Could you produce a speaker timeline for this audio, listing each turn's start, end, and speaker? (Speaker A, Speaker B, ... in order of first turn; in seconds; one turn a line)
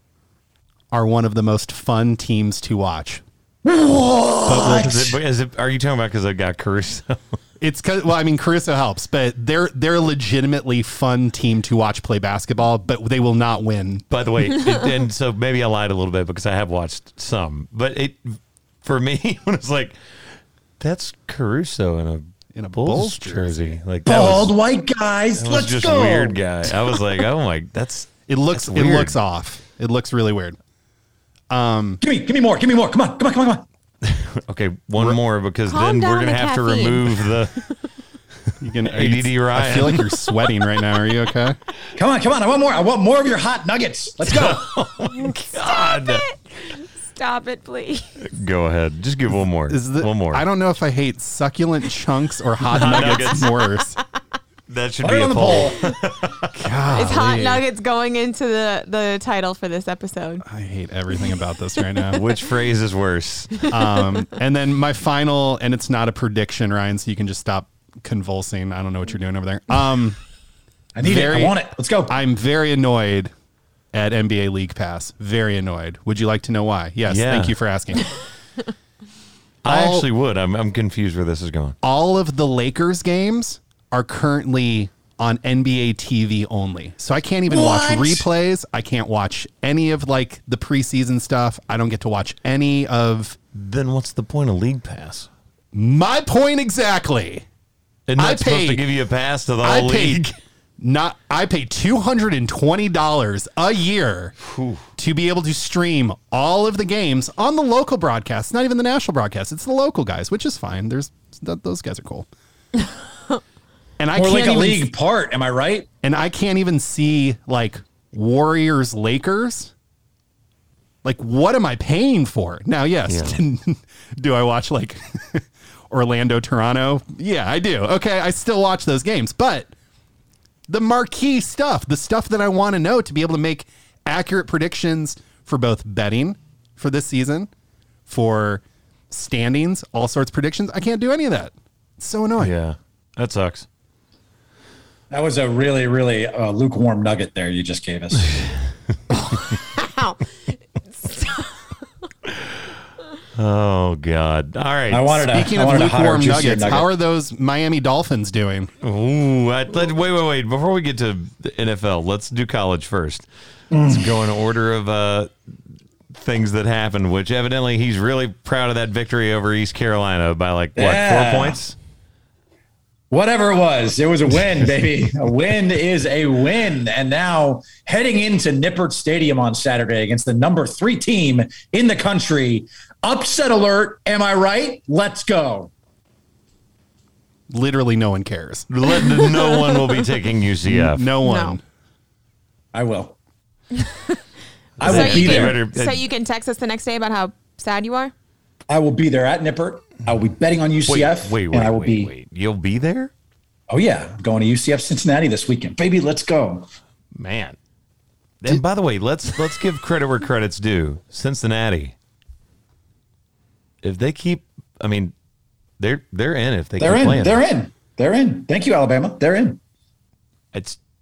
Speaker A: 0.9-3.2
Speaker B: 3.6-5.1
Speaker A: 4.5-5.2
Speaker C: 4.6-7.2
Speaker A: 7.6-14.0
Speaker C: 14.1-20.0
Speaker C: 20.8-24.5
Speaker A: 22.5-23.6
Speaker B: 24.1-26.4
Speaker C: 25.4-29.1
Speaker A: 28.3-30.6
Speaker A: 31.5-32.0
Speaker B: 32.0-33.6
Speaker C: 34.0-37.6
Speaker D: 35.7-37.4
Speaker A: 38.6-41.6
Speaker C: 38.8-40.2
Speaker B: 42.0-44.7
Speaker C: 44.2-46.2
Speaker D: 45.1-48.2
Speaker C: 48.2-50.4
Speaker A: 49.7-54.0
Speaker C: 52.7-53.5
Speaker C: 54.7-56.5
Speaker B: 55.0-55.9
Speaker A: 56.5-57.6
Speaker D: 56.9-60.4
Speaker A: 60.4-62.2
Speaker C: 62.1-63.7
Speaker A: 63.7-70.2
Speaker B: 70.9-72.1
Speaker A: 71.0-73.3
Speaker A: 73.9-78.1
Speaker C: 77.1-77.5
Speaker C: 79.6-81.8
Speaker A: 79.7-80.0
Speaker A: 81.8-93.4
Speaker B: 87.5-88.3
Speaker C: 93.5-95.3
Speaker A: 95.7-97.4
Speaker C: 98.1-100.3
Speaker A: 98.2-98.8
Speaker A: 99.6-100.2
Speaker A: 100.8-104.3
Speaker C: 104.4-104.8
Speaker A: 105.0-112.3
Speaker A: 114.0-114.9
Speaker B: 114.1-115.9
Speaker A: 116.0-119.7
Speaker A: 121.0-129.7
Speaker C: 123.1-123.4
Speaker A: 130.7-137.5
Speaker A: 138.1-142.5
Speaker C: 142.4-143.7
Speaker B: 145.1-148.4
Speaker D: 149.7-150.2
Speaker D: 150.9-151.5
Speaker C: 153.3-155.3
Speaker B: 154.9-156.9
Speaker A: 155.3-158.7
Speaker C: 158.8-163.2
Speaker B: 163.7-164.2
Speaker C: 163.8-165.3
Speaker C: 166.1-171.8
Speaker B: 170.8-171.6
Speaker B: 173.1-185.7
Speaker A: 187.5-188.7
Speaker C: 188.7-191.1
Speaker D: 188.9-189.9
Speaker A: 190.6-191.6
Speaker D: 191.2-191.6
Speaker B: 192.7-193.1
Speaker D: 193.8-194.1
Speaker B: 194.8-195.6
Speaker C: 194.8-196.0
Speaker D: 194.8-198.1
Speaker B: 198.7-202.1
Speaker C: 200.9-203.1
Speaker B: 203.7-206.7
Speaker C: 207.1-207.6
Speaker C: 208.4-211.9
Speaker C: 213.8-215.1
Speaker C: 215.8-217.4
Speaker B: 216.8-219.6
Speaker C: 220.5-220.8